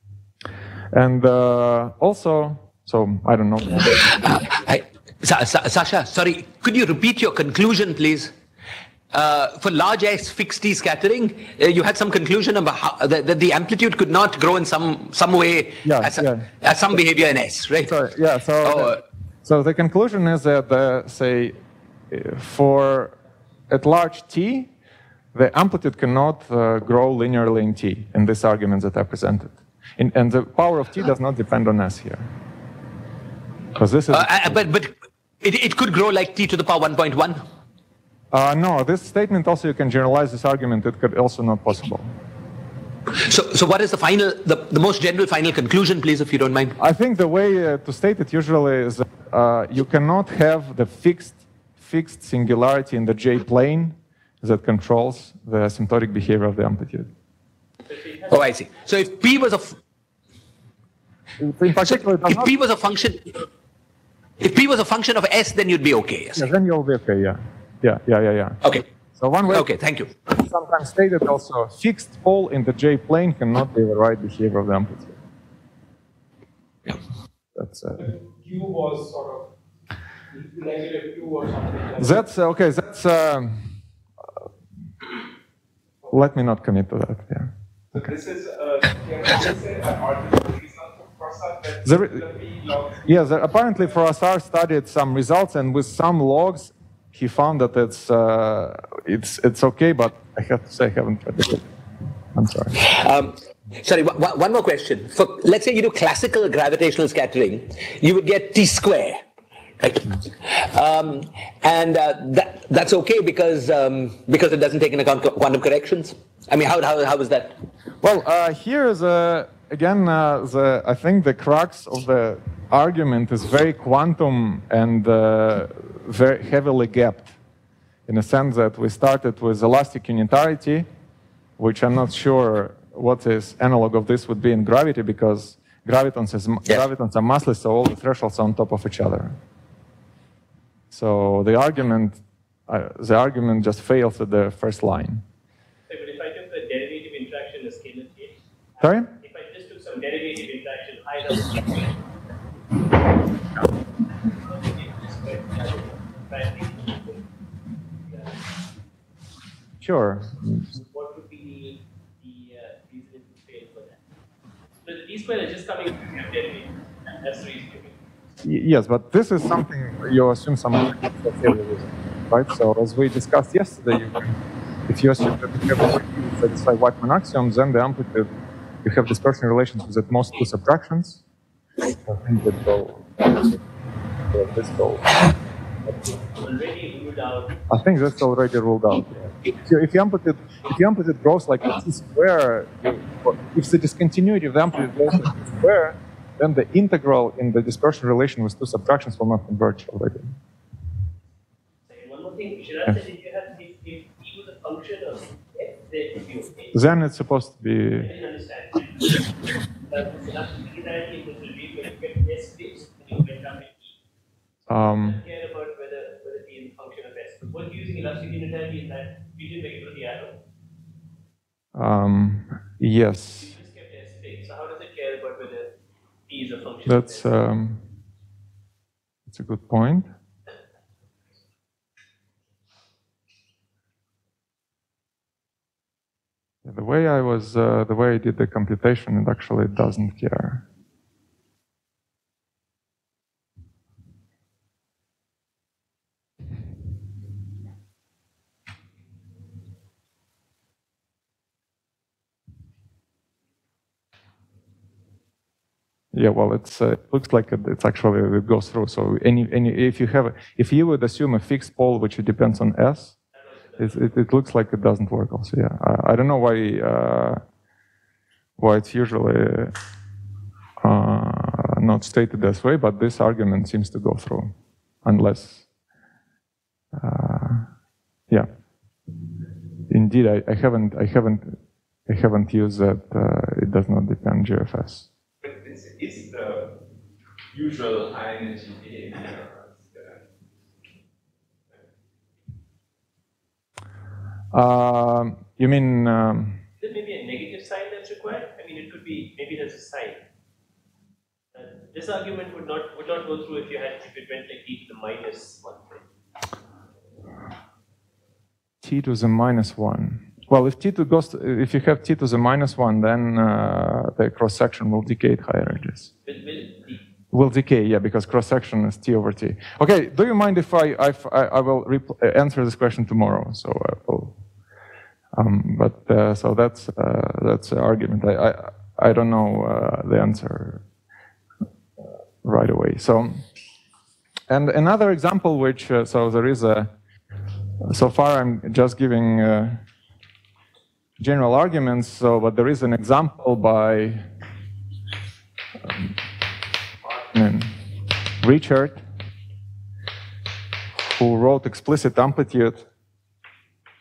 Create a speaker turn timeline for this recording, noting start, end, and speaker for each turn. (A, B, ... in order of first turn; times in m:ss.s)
0:00.9-0:04.0 A
0:04.0-0:08.3 B
0:09.1-0:18.0 B
0:15.8-0:16.5 A
0:17.8-0:21.6 A
0:18.6-0:19.0 B
0:22.1-0:23.2 A
0:23.7-0:24.7 A
0:25.3-0:32.3 A
0:33.8-0:34.6 A
0:34.1-0:37.4 B
0:38.3-0:42.1 A
0:43.1-0:46.8 B
0:46.8-0:57.1 A
0:57.9-0:58.4 C
0:58.3-0:59.8 B
1:01.4-1:02.5 A
1:01.8-1:03.4 B
1:04.4-1:06.5 B
1:06.4-1:08.6 A
1:09.2-1:09.7 A
1:09.5-1:10.1 B
1:10.3-1:15.2 A
1:17.6-1:18.1 A
1:18.0-1:19.5 D
1:20.3-1:22.2 D
1:22.0-1:23.7 A
1:26.1-1:27.5 A
1:27.9-1:33.2 E
1:31.8-1:32.2 A
1:33.0-1:41.7 A
1:42.3-1:42.8 A
1:42.8-1:49.2 B
1:49.8-1:57.6 B
1:58.0-2:07.4 A
2:08.1-2:10.9 A
2:11.6-2:19.4 A
2:20.9-2:25.2 A
2:25.9-2:32.0 C
2:28.8-2:29.1 A
2:34.2-2:37.2 C
2:38.1-2:38.4 C
2:39.8-2:40.7 A
2:40.8-2:44.0 C
2:44.8-2:48.0 C
2:48.4-2:54.4 A
2:54.9-2:58.3 A
2:58.8-3:01.2 A
3:02.0-3:03.6 A
3:04.3-3:05.1 A
3:06.3-3:07.6 C
3:07.7-3:20.3 A
3:21.9-3:26.8 C
3:26.7-3:28.1 A
3:28.0-3:29.3 C
3:29.9-3:33.9 C
3:34.7-3:35.2 A
3:34.8-3:40.4 C
3:41.8-3:43.5 A
3:43.4-3:45.7 C
3:46.3-3:47.3 C
3:46.9-3:47.8 A
3:49.3-3:50.1 A
3:56.6-4:00.6 A
4:16.1-4:23.2 A
4:23.4-4:24.1 C
4:23.8-4:27.4 A
4:28.6-4:29.7 A
4:30.8-4:34.5 A
4:35.0-4:35.7 A
4:36.9-4:37.7 A
4:39.9-4:45.1 A
4:45.4-4:46.8 E
4:47.5-4:50.2 E
4:54.5-4:56.6 A
4:56.8-5:00.2 C
5:01.6-5:06.0 C
5:08.8-5:16.1 A
5:16.3-5:17.0 C
5:17.3-5:24.4 A
5:25.4-5:30.8 A
5:32.4-5:33.4 A
5:34.5-5:36.9 A
5:37.8-5:39.8 A
5:41.2-5:44.3 A
5:47.0-5:47.8 A
5:48.4-5:49.0 A
5:51.0-5:52.9 A